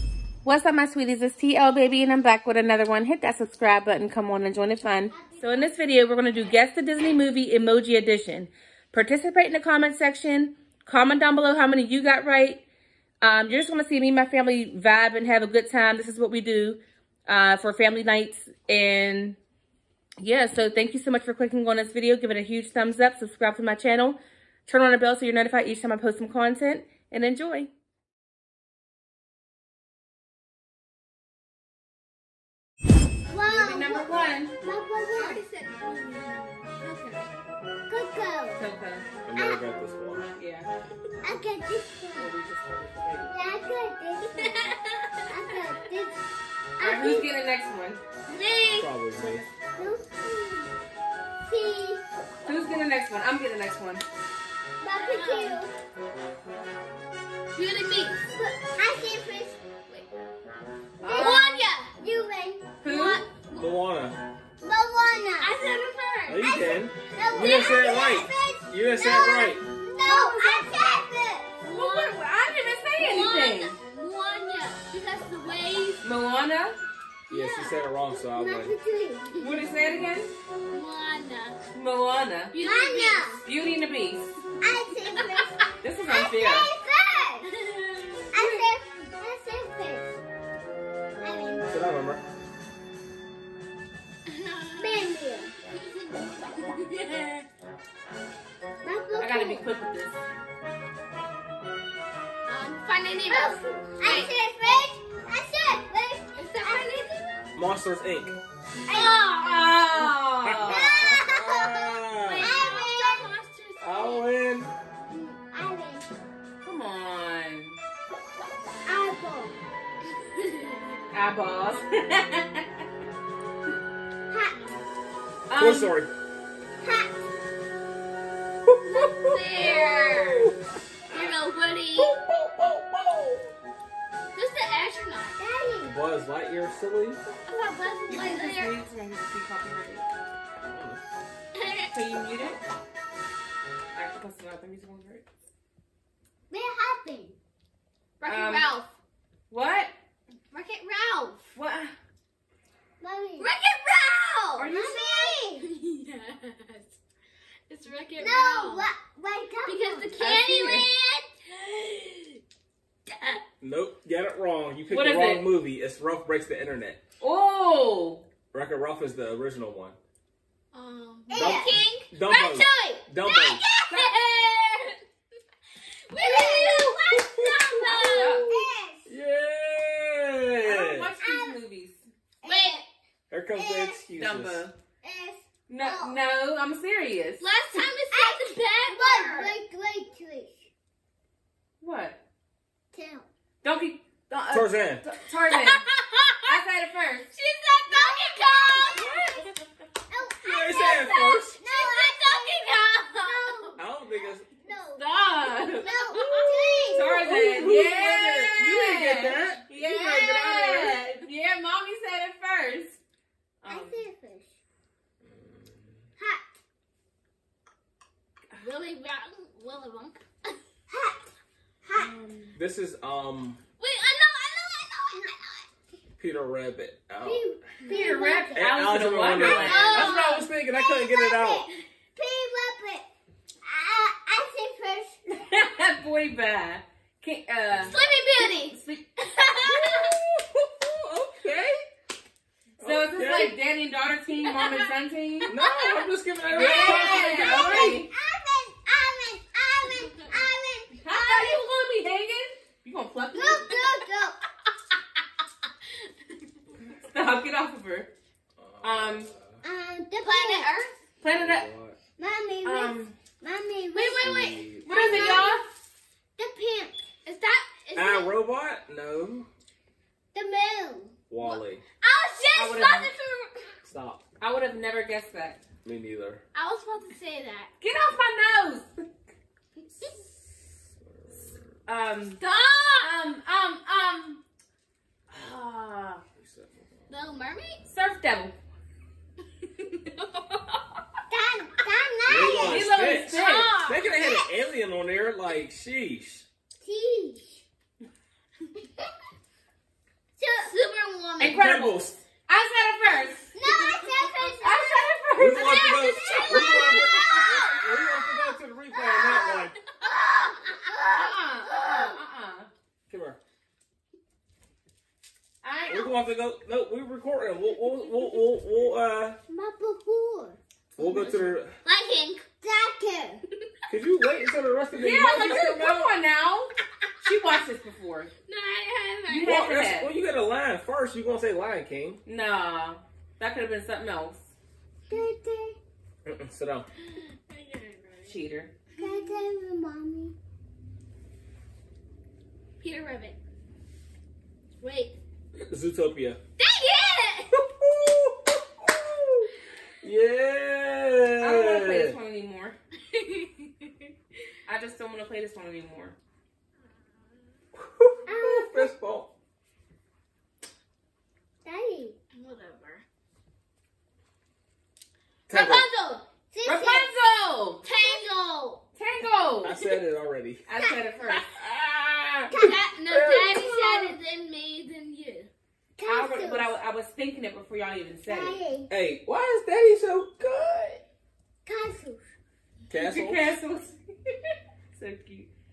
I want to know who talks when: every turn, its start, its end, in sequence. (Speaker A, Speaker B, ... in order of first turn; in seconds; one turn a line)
Speaker A: 0.4-12.6
Speaker B: 5.1-5.8
Speaker A: 13.2-19.4
Speaker A: 20.2-27.7
Speaker B: 33.3-35.4
Speaker A: 33.5-34.5
Speaker C: 35.1-37.2
Speaker B: 37.9-38.6
Speaker A: 38.6-39.0
Speaker D: 39.3-40.3
Speaker B: 39.4-39.6
Speaker A: 40.4-40.7
Speaker B: 41.2-42.3
Speaker A: 42.1-43.4
Speaker B: 43.3-44.7
Speaker C: 44.4-45.8
Speaker B: 45.3-46.2
Speaker B: 46.8-47.3
Speaker A: 46.8-48.0
Speaker C: 48.3-48.9
Speaker D: 48.7-49.5
Speaker B: 49.8-50.7
Speaker B: 51.4-52.0
Speaker A: 52.4-54.0
Speaker B: 54.8-55.7
Speaker C: 54.9-55.6
Speaker C: 57.5-58.3
Speaker B: 58.3-59.6
Speaker A: 61.0-61.5
Speaker C: 61.1-61.9
Speaker B: 61.1-62.8
Speaker A: 62.8-63.2
Speaker C: 62.8-63.7
Speaker D: 63.5-64.2
Speaker B: 64.6-65.7
Speaker C: 65.4-66.7
Speaker D: 66.3-69.6
Speaker B: 67.1-71.5
Speaker C: 67.4-67.7
Speaker C: 70.0-70.8
Speaker C: 71.6-72.2
Speaker A: 71.7-73.8
Speaker C: 73.0-76.0
Speaker A: 76.0-76.8
Speaker D: 77.3-78.7
Speaker C: 77.3-77.7
Speaker B: 78.3-79.5
Speaker A: 79.4-80.3
Speaker C: 80.7-81.6
Speaker A: 81.7-82.6
Speaker C: 82.5-83.3
Speaker B: 82.6-83.4
Speaker A: 83.4-84.4
Speaker B: 84.6-87.5
Speaker C: 85.0-85.5
Speaker A: 85.8-86.7
Speaker C: 87.4-88.7
Speaker B: 88.3-90.1
Speaker B: 91.2-91.7
Speaker D: 91.7-92.2
Speaker C: 94.3-95.2
Speaker B: 94.8-95.5
Speaker C: 95.8-97.4
Speaker B: 98.8-99.7
Speaker A: 99.2-100.2
Speaker C: 102.5-104.3
Speaker B: 103.2-107.0
Speaker C: 106.3-107.4
Speaker D: 107.5-108.4
Speaker C: 108.9-110.1
Speaker A: 108.9-110.8
Speaker D: 110.4-112.5
Speaker B: 110.7-113.3
Speaker C: 112.2-114.2
Speaker D: 113.8-114.7
Speaker B: 115.1-116.1
Speaker A: 116.6-117.8
Speaker B: 118.8-119.6
Speaker A: 121.1-122.7
Speaker B: 124.3-124.7
Speaker A: 125.5-126.0
Speaker D: 125.5-126.1
Speaker B: 126.8-127.2
Speaker D: 128.7-130.5
Speaker C: 128.9-130.5
Speaker C: 131.1-132.1
Speaker D: 131.9-133.5
Speaker C: 134.3-135.4
Speaker B: 135.4-136.0
Speaker D: 135.9-137.2
Speaker C: 137.5-138.8
Speaker A: 138.1-140.1
Speaker D: 140.6-141.0
Speaker C: 141.6-141.9
Speaker A: 141.9-142.6
Speaker A: 143.9-145.3
Speaker B: 146.5-147.4
Speaker C: 148.2-148.9
Speaker A: 148.3-148.7
Speaker A: 149.5-149.9
Speaker C: 150.5-151.4
Speaker A: 151.6-151.9
Speaker B: 153.0-153.5
Speaker C: 153.4-156.9
Speaker A: 154.6-155.3
Speaker B: 154.7-155.7
Speaker C: 157.7-158.9
Speaker B: 158.2-160.2
Speaker C: 159.7-162.4
Speaker A: 160.2-160.9
Speaker C: 163.1-163.4
Speaker D: 163.6-167.0
Speaker A: 164.9-165.5
Speaker A: 167.2-168.2
Speaker D: 168.5-170.0
Speaker C: 170.7-175.0
Speaker B: 171.3-171.8
Speaker D: 171.3-173.6
Speaker C: 176.1-178.4
Speaker B: 176.2-177.1
Speaker D: 177.1-181.1
Speaker B: 177.9-179.1
Speaker A: 178.0-178.5
Speaker A: 180.6-182.1
Speaker B: 181.2-181.6
Speaker B: 182.4-182.9
Speaker C: 182.4-182.8
Speaker D: 183.3-184.6
Speaker B: 183.6-184.0
Speaker A: 184.2-184.8
Speaker B: 185.0-186.2
Speaker A: 185.7-187.5
Speaker C: 187.4-189.6
Speaker B: 188.1-190.7
Speaker A: 191.8-192.2
Speaker B: 192.9-193.3
Speaker A: 193.6-195.9
Speaker D: 194.5-195.0
Speaker C: 195.5-196.5
Speaker A: 196.5-197.3
Speaker C: 197.3-199.4
Speaker B: 197.9-199.1
Speaker A: 199.2-199.5
Speaker B: 200.1-205.1
Speaker D: 200.4-201.6
Speaker C: 200.8-203.8
Speaker D: 203.8-204.5
Speaker A: 205.0-206.0
Speaker B: 205.6-207.3
Speaker C: 206.1-207.1
Speaker A: 206.9-213.0
Speaker D: 207.1-209.6
Speaker B: 209.8-210.3
Speaker D: 210.4-210.9
Speaker A: 213.6-214.0
Speaker B: 213.7-214.5
Speaker D: 215.3-215.9
Speaker B: 216.2-216.5
Speaker C: 218.6-220.6
Speaker B: 220.9-221.3
Speaker B: 221.8-222.1
Speaker A: 222.0-222.6
Speaker D: 222.5-223.6
Speaker C: 223.8-225.7
Speaker D: 226.2-227.5
Speaker B: 227.2-228.7
Speaker A: 227.9-230.1
Speaker D: 228.5-231.7
Speaker C: 229.5-230.5
Speaker B: 230.5-233.1
Speaker B: 233.6-235.2
Speaker A: 235.3-239.2
Speaker C: 237.8-240.0
Speaker D: 239.6-241.9
Speaker D: 242.8-243.6
Speaker A: 242.8-245.5
Speaker D: 245.5-248.0
Speaker C: 246.5-247.6
Speaker A: 246.5-248.1
Speaker B: 247.3-251.6
Speaker A: 251.0-253.8
Speaker B: 253.3-254.4
Speaker A: 256.9-258.1
Speaker D: 258.6-259.6
Speaker A: 258.8-259.3
Speaker B: 259.6-260.8
Speaker C: 260.2-260.9
Speaker A: 261.2-261.7
Speaker D: 261.3-262.0
Speaker B: 262.2-264.4
Speaker A: 262.6-263.1
Speaker C: 263.9-265.6
Speaker D: 264.2-265.4
Speaker A: 264.9-265.7
Speaker B: 265.0-265.5
Speaker B: 266.4-267.0
Speaker C: 267.2-268.3
Speaker D: 267.9-269.5
Speaker B: 270.3-271.1
Speaker D: 271.3-271.8
Speaker C: 271.4-273.8
Speaker A: 272.5-273.1
Speaker D: 273.9-274.2
Speaker A: 274.4-275.6
Speaker D: 275.8-276.4
Speaker C: 276.5-277.7
Speaker A: 277.8-279.1
Speaker D: 281.2-281.7
Speaker A: 281.9-282.4
Speaker C: 282.4-283.1
Speaker A: 283.0-284.4
Speaker A: 285.3-286.2
Speaker D: 286.4-286.9
Speaker C: 287.1-287.8
Speaker A: 287.9-288.6
Speaker C: 290.0-290.6
Speaker B: 291.3-292.9
Speaker D: 292.3-296.5
Speaker A: 292.6-293.8
Speaker C: 293.1-294.1
Speaker B: 294.1-294.5
Speaker B: 296.8-297.6
Speaker C: 300.4-301.6
Speaker B: 300.4-300.7
Speaker A: 301.4-303.5
Speaker D: 301.4-302.2
Speaker B: 303.5-307.8
Speaker C: 303.6-304.6
Speaker A: 304.6-306.0
Speaker D: 305.4-309.8
Speaker C: 307.5-307.8
Speaker C: 309.0-309.5
Speaker C: 310.2-311.0
Speaker B: 310.7-312.2
Speaker A: 310.8-312.7
Speaker D: 313.1-313.4
Speaker A: 315.6-316.2
Speaker D: 315.9-319.4
Speaker B: 319.5-320.6
Speaker D: 321.0-321.8
Speaker A: 321.0-321.4
Speaker C: 321.8-322.4
Speaker B: 322.6-323.4
Speaker D: 323.9-326.1
Speaker A: 325.0-328.3
Speaker C: 328.5-329.5
Speaker A: 329.3-330.1
Speaker D: 329.4-332.2
Speaker A: 332.2-334.5
Speaker B: 335.1-335.8
Speaker D: 336.3-336.9
Speaker C: 337.1-338.3
Speaker A: 338.2-338.7
Speaker B: 339.0-340.3
Speaker C: 339.0-339.3
Speaker C: 342.8-343.4
Speaker C: 344.8-345.1
Speaker D: 345.6-346.4
Speaker C: 346.6-347.6
Speaker D: 347.6-349.5
Speaker D: 350.0-352.2
Speaker A: 351.4-352.8
Speaker C: 353.1-353.9
Speaker A: 354.7-356.2
Speaker D: 357.8-359.3
Speaker B: 358.3-358.9
Speaker B: 361.6-362.2
Speaker C: 362.4-363.0
Speaker D: 365.5-365.9
Speaker C: 365.5-366.2
Speaker B: 366.5-367.1
Speaker A: 366.6-367.9
Speaker C: 367.8-368.8
Speaker B: 367.9-368.3
Speaker A: 369.0-369.8
Speaker D: 369.6-370.6
Speaker A: 370.7-371.5
Speaker D: 371.3-372.6
Speaker B: 372.5-372.9
Speaker C: 372.6-375.5
Speaker D: 373.1-374.2
Speaker B: 376.0-376.7
Speaker A: 376.1-378.6
Speaker B: 378.3-378.9
Speaker D: 378.9-381.0
Speaker B: 381.6-382.3
Speaker D: 382.9-383.4
Speaker A: 383.0-385.5